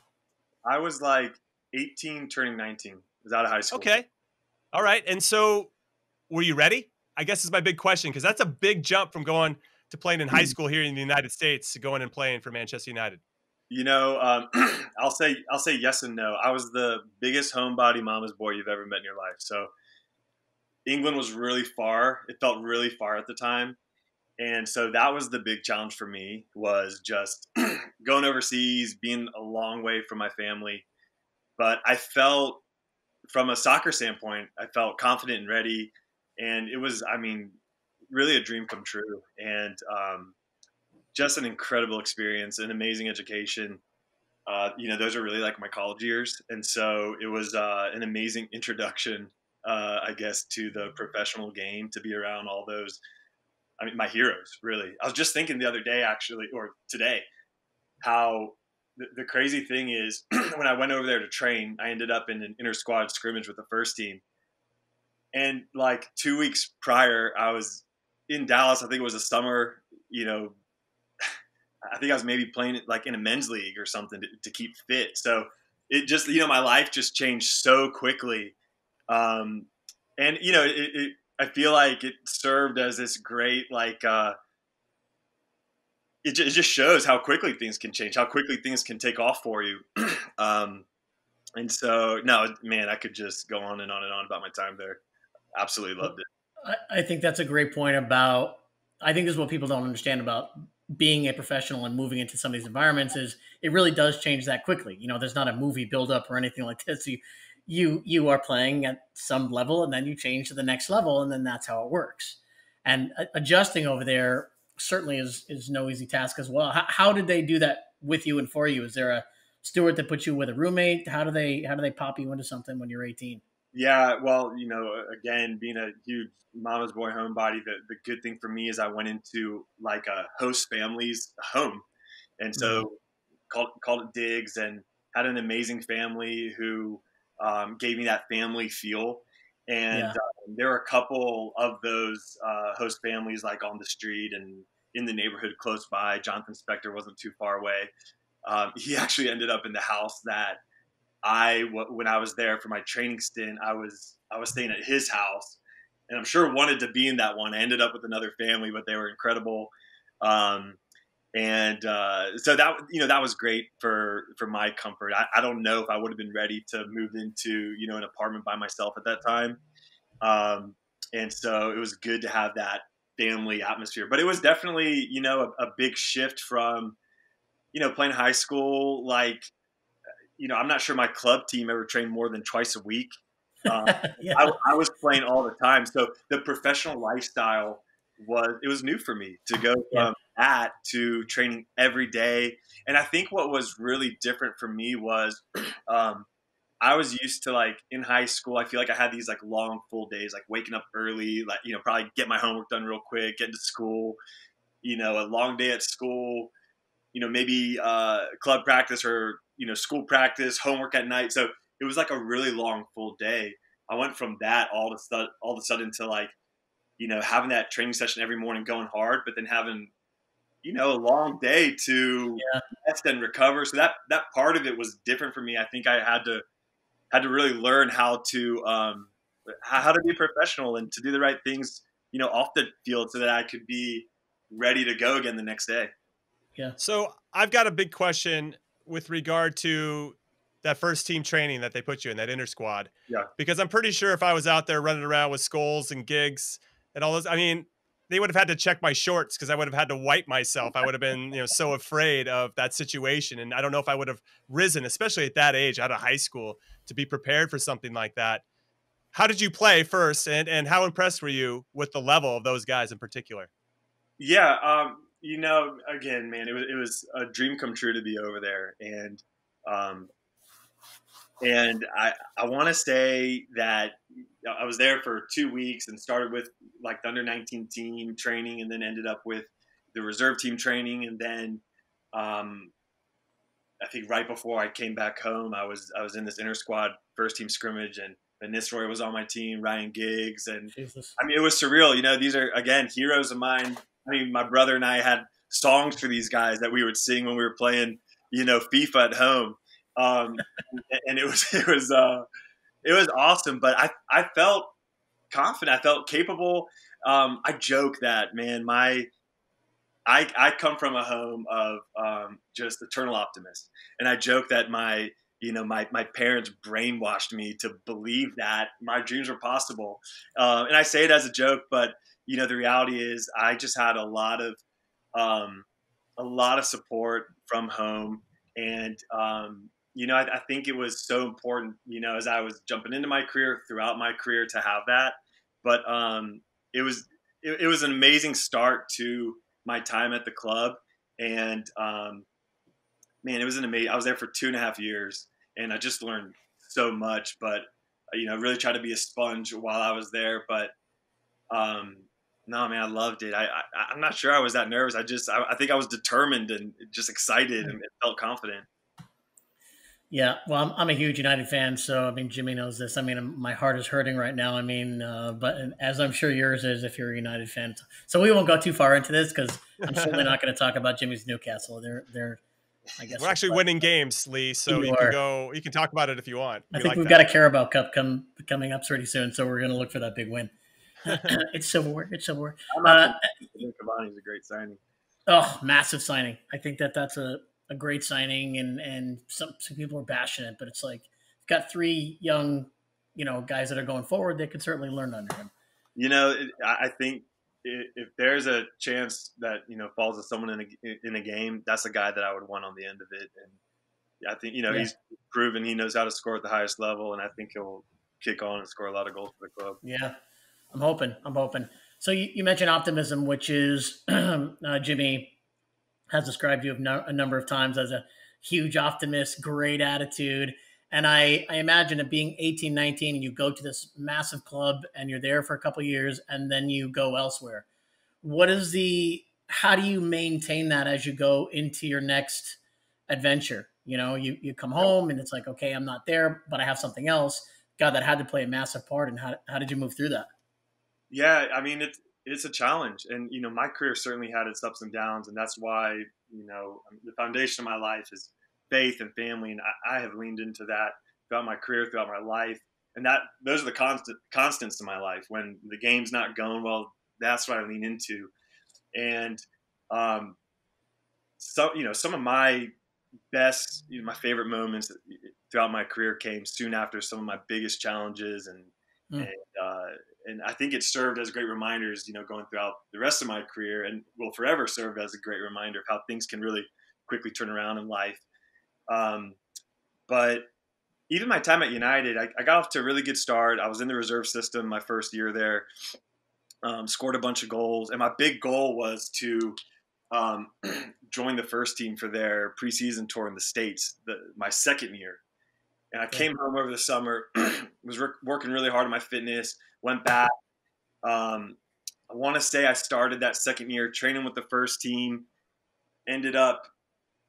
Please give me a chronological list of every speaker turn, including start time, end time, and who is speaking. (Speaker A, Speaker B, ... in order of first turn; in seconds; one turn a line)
Speaker A: 0.6-3.9
Speaker B: 3.7-4.0
Speaker B: 4.7-5.7
Speaker B: 6.3-13.2
Speaker A: 13.7-19.7
Speaker A: 20.9-23.8
Speaker A: 24.4-30.9
Speaker A: 31.6-32.6
Speaker A: 33.3-37.6
Speaker A: 38.1-40.3
Speaker A: 41.1-43.8
Speaker A: 44.5-53.0
Speaker A: 53.8-57.3
Speaker A: 58.0-64.2
Speaker A: 65.3-70.5
Speaker A: 71.9-78.5
Speaker A: 79.1-84.3
Speaker A: 86.2-90.8
Speaker A: 91.6-95.0
Speaker A: 95.5-96.2
Speaker C: 96.6-123.4
Speaker A: 123.7-131.8
Speaker A: 132.4-133.0
Speaker C: 132.6-132.8
Speaker A: 133.5-147.9
Speaker C: 139.9-140.2
Speaker A: 148.5-150.6
Speaker A: 151.2-160.8
Speaker A: 161.3-169.6
Speaker A: 170.2-177.0
Speaker A: 177.7-179.5
Speaker A: 180.4-183.1
Speaker A: 183.7-196.3
Speaker C: 183.8-184.5
Speaker A: 196.8-204.2
Speaker A: 204.8-206.5
Speaker A: 207.1-216.3
Speaker A: 217.0-219.9
Speaker A: 220.6-226.4
Speaker C: 222.4-222.6
Speaker A: 227.1-235.9
Speaker B: 236.8-258.4
Speaker B: 259.1-263.5
Speaker A: 264.2-270.1
Speaker A: 271.4-281.6
Speaker A: 282.1-282.7
Speaker A: 283.8-302.2
Speaker C: 290.7-291.1
Speaker A: 302.8-304.7
Speaker A: 305.3-309.1
Speaker A: 310.1-324.6
Speaker A: 325.1-325.6
Speaker A: 326.2-342.2
Speaker A: 343.2-350.7
Speaker A: 351.5-358.7
Speaker C: 360.1-372.4
Speaker B: 369.9-370.3
Speaker C: 373.0-373.6
Speaker B: 373.2-377.2
Speaker C: 374.7-375.2
Speaker C: 376.7-380.5
Speaker C: 381.1-383.1
Speaker A: 382.7-384.8
Speaker C: 385.3-395.5
Speaker A: 395.9-403.6
Speaker A: 404.2-409.8
Speaker C: 409.8-410.1
Speaker C: 410.7-415.3
Speaker C: 416.1-427.6
Speaker C: 428.2-432.6
Speaker C: 433.1-440.3
Speaker A: 441.1-458.3
Speaker A: 458.9-460.4
Speaker A: 461.4-462.7
Speaker A: 463.3-478.2
Speaker A: 478.9-479.4
Speaker A: 480.1-480.5
Speaker A: 481.1-485.7
Speaker A: 486.6-489.6
Speaker A: 490.1-495.2
Speaker A: 495.9-500.3
Speaker A: 501.0-501.6
Speaker A: 502.1-505.3
Speaker A: 506.1-506.7